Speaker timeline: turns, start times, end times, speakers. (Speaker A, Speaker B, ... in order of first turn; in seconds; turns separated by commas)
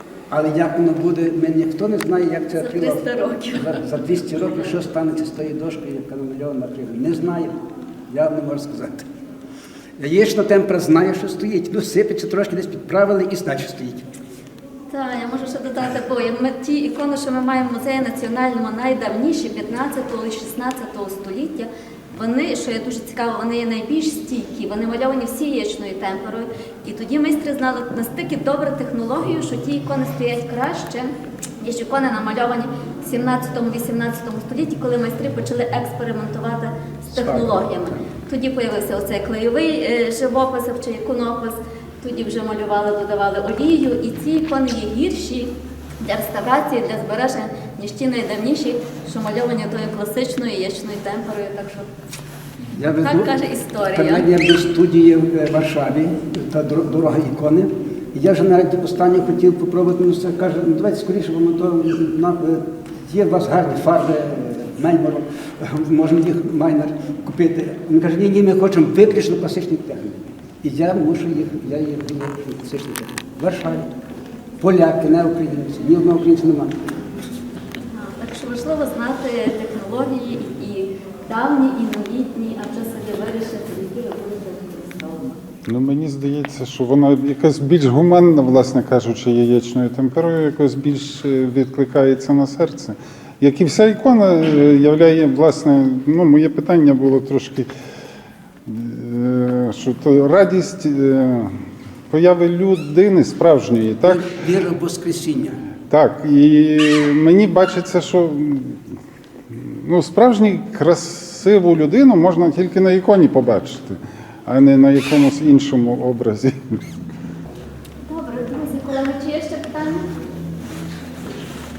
Speaker A: 0.3-9.1, Speaker B: 2.6-3.8, Speaker A: 10.0-14.1, Speaker B: 14.9-51.9, Speaker A: 37.1-37.7, Speaker A: 52.7-53.3, Speaker B: 53.0-54.3, Speaker A: 54.0-73.9, Speaker A: 74.6-76.8, Speaker B: 78.0-85.4, Speaker C: 85.7-97.7, Speaker C: 98.7-104.2, Speaker A: 104.0-105.6, Speaker C: 105.9-109.0, Speaker C: 109.5-116.8, Speaker B: 118.1-120.0